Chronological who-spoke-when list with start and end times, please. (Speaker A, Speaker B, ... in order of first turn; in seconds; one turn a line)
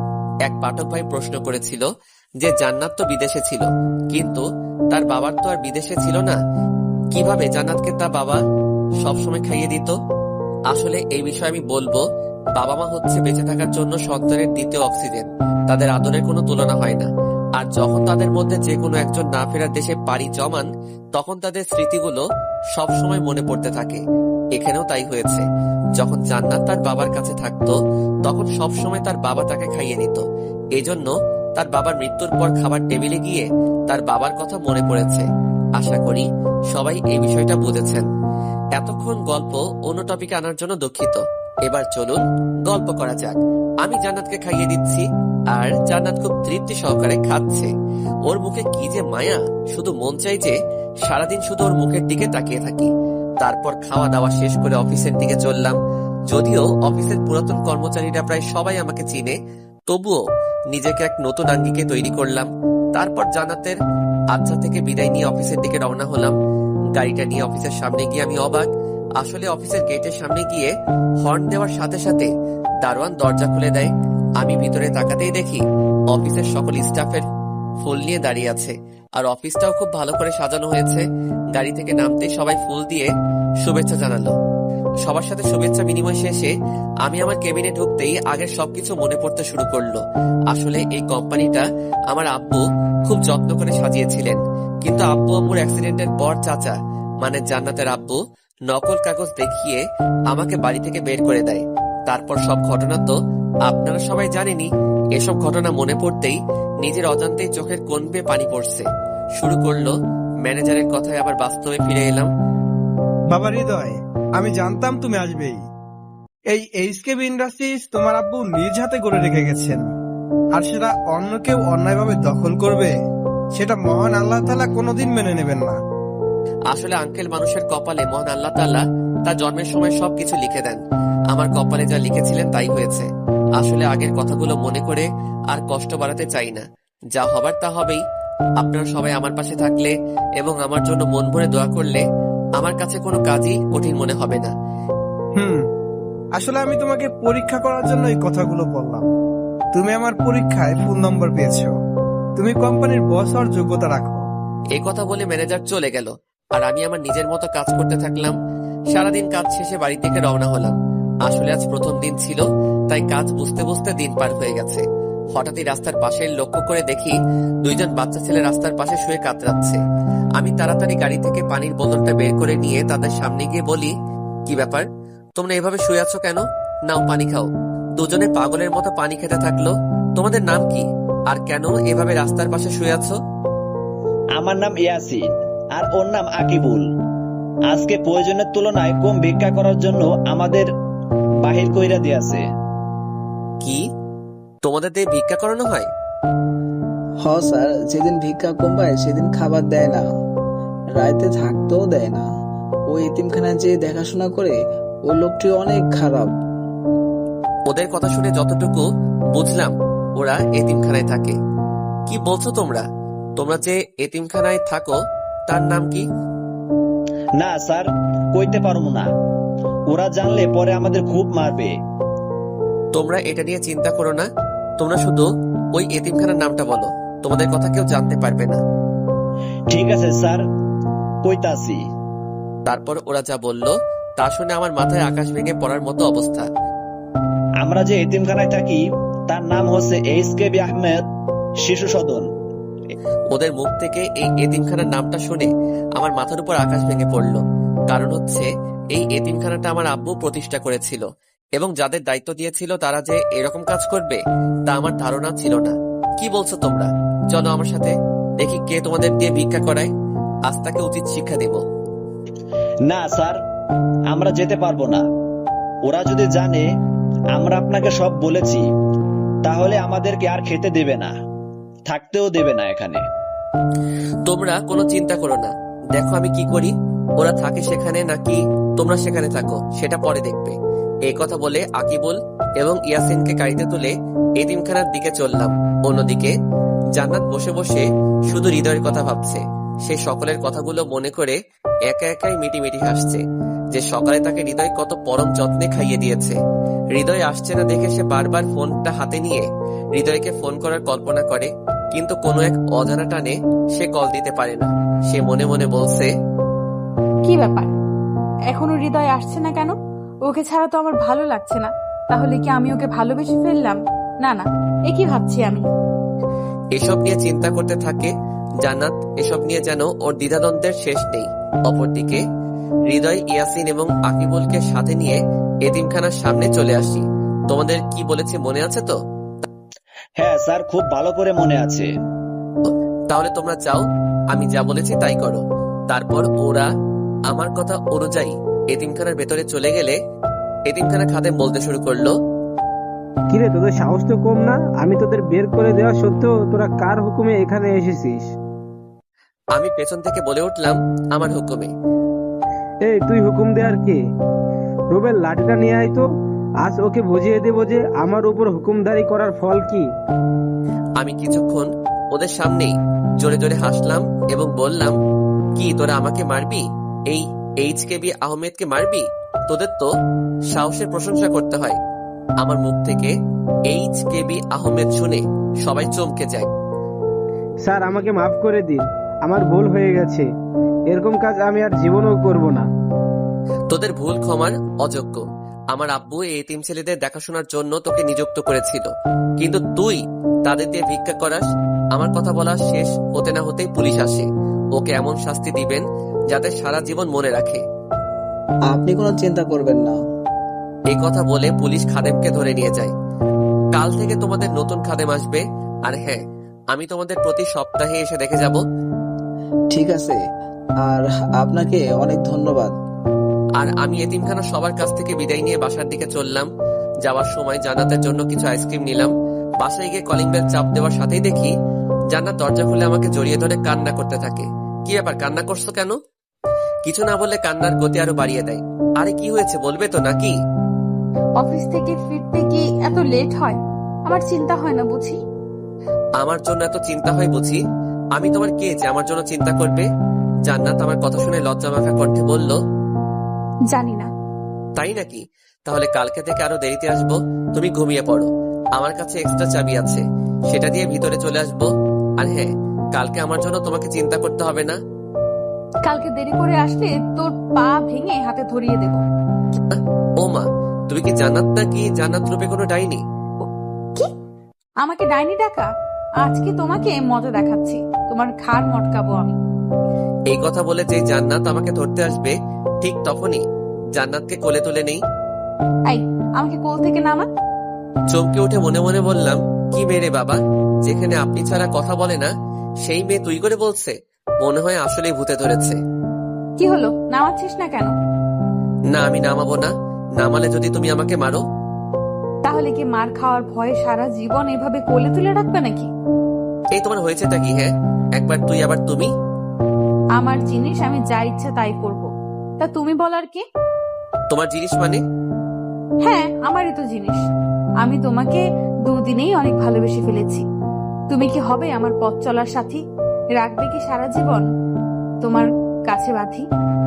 Speaker A: 0.5-1.9
Speaker A: 2.4-6.4
Speaker A: 7.1-8.4
Speaker A: 9.0-9.9
Speaker A: 10.7-12.0
Speaker A: 12.6-22.2
Speaker A: 22.8-24.0
Speaker A: 24.6-25.4
Speaker A: 26.0-30.2
Speaker A: 30.8-35.2
Speaker A: 35.8-38.1
Speaker A: 38.8-47.7
Speaker A: 48.3-52.9
Speaker A: 53.4-55.8
Speaker A: 56.3-59.4
Speaker A: 59.9-63.8
Speaker A: 64.3-66.3
Speaker A: 66.9-68.7
Speaker A: 69.2-70.7
Speaker A: 71.2-72.3
Speaker A: 72.8-77.2
Speaker A: 77.8-83.1
Speaker A: 83.6-84.3
Speaker A: 85.0-86.5
Speaker A: 87.0-90.0
Speaker A: 90.5-108.9
Speaker A: 109.4-112.3
Speaker B: 113.3-115.6
Speaker B: 116.5-119.9
Speaker B: 120.5-122.9
Speaker B: 123.5-125.8
Speaker A: 126.7-130.8
Speaker A: 131.3-133.1
Speaker A: 133.6-138.0
Speaker A: 138.6-142.0
Speaker A: 142.6-144.5
Speaker B: 145.4-145.7
Speaker B: 146.3-149.1
Speaker B: 149.7-151.7
Speaker B: 152.4-154.2
Speaker A: 154.7-158.3
Speaker A: 158.9-164.8
Speaker A: 165.3-169.8
Speaker A: 170.4-173.9
Speaker A: 174.5-183.2
Speaker C: 184.3-186.8
Speaker C: 187.7-190.7
Speaker C: 191.4-192.4
Speaker A: 193.6-193.8
Speaker A: 194.6-195.9
Speaker D: 197.2-200.0
Speaker D: 200.9-202.2
Speaker D: 202.9-204.6
Speaker D: 205.1-206.3
Speaker A: 207.7-211.3
Speaker A: 212.1-212.8
Speaker A: 213.4-214.9
Speaker A: 215.5-216.1
Speaker C: 217.4-219.1
Speaker C: 219.9-221.7
Speaker A: 222.9-224.2
Speaker A: 224.8-228.6
Speaker C: 229.7-230.4
Speaker C: 231.2-231.8
Speaker A: 232.7-236.4
Speaker C: 237.6-241.0
Speaker C: 241.6-242.3
Speaker A: 243.3-247.4
Speaker A: 247.9-251.0
Speaker A: 251.6-259.9
Speaker A: 260.5-261.6
Speaker C: 262.9-263.4
Speaker C: 264.1-265.0
Speaker C: 265.8-266.6
Speaker C: 267.3-268.7
Speaker C: 269.4-271.1
Speaker C: 271.9-273.0
Speaker A: 274.2-280.5
Speaker A: 281.1-286.3
Speaker A: 286.9-291.4
Speaker A: 291.9-293.2
Speaker A: 293.7-296.4
Speaker A: 296.9-306.1
Speaker E: 307.3-307.7
Speaker E: 308.5-309.7
Speaker E: 310.2-315.6
Speaker A: 316.8-318.1
Speaker A: 318.6-322.2
Speaker A: 322.9-328.9
Speaker C: 330.2-331.9
Speaker A: 332.7-336.7
Speaker A: 337.3-340.0
Speaker A: 340.7-342.1
Speaker F: 343.3-348.3
Speaker A: 349.5-351.7
Speaker F: 352.8-354.0
Speaker F: 354.9-356.1
Speaker F: 356.6-359.9
Speaker A: 361.0-364.9
Speaker A: 365.6-369.9
Speaker A: 370.5-371.8
Speaker A: 372.4-373.1
Speaker A: 373.7-376.5
Speaker F: 377.6-380.3
Speaker F: 380.9-382.7
Speaker A: 383.7-397.6
Speaker D: 398.7-399.9
Speaker A: 400.9-402.9
Speaker A: 403.7-406.2
Speaker A: 406.7-408.6
Speaker D: 409.7-410.2
Speaker D: 410.8-412.7
Speaker A: 413.6-416.5
Speaker A: 417.0-421.5
Speaker A: 422.1-425.9
Speaker A: 426.8-430.3
Speaker E: 431.4-435.2
Speaker A: 436.2-437.6
Speaker A: 438.1-439.9
Speaker A: 440.5-442.6
Speaker E: 443.7-444.1
Speaker A: 444.8-451.7
Speaker A: 452.2-454.8
Speaker E: 455.9-459.0
Speaker A: 459.7-463.0
Speaker E: 464.8-465.7
Speaker E: 466.2-469.4
Speaker A: 470.3-473.4
Speaker A: 473.9-475.0
Speaker E: 475.9-477.2
Speaker A: 478.1-482.3
Speaker A: 482.8-485.8
Speaker E: 486.6-487.9
Speaker A: 488.9-491.4
Speaker E: 492.5-495.9
Speaker A: 496.8-499.1
Speaker E: 500.2-503.4
Speaker A: 504.3-505.0
Speaker E: 506.0-507.3
Speaker E: 507.8-510.4
Speaker E: 511.1-512.8
Speaker E: 513.4-514.4
Speaker E: 515.2-516.5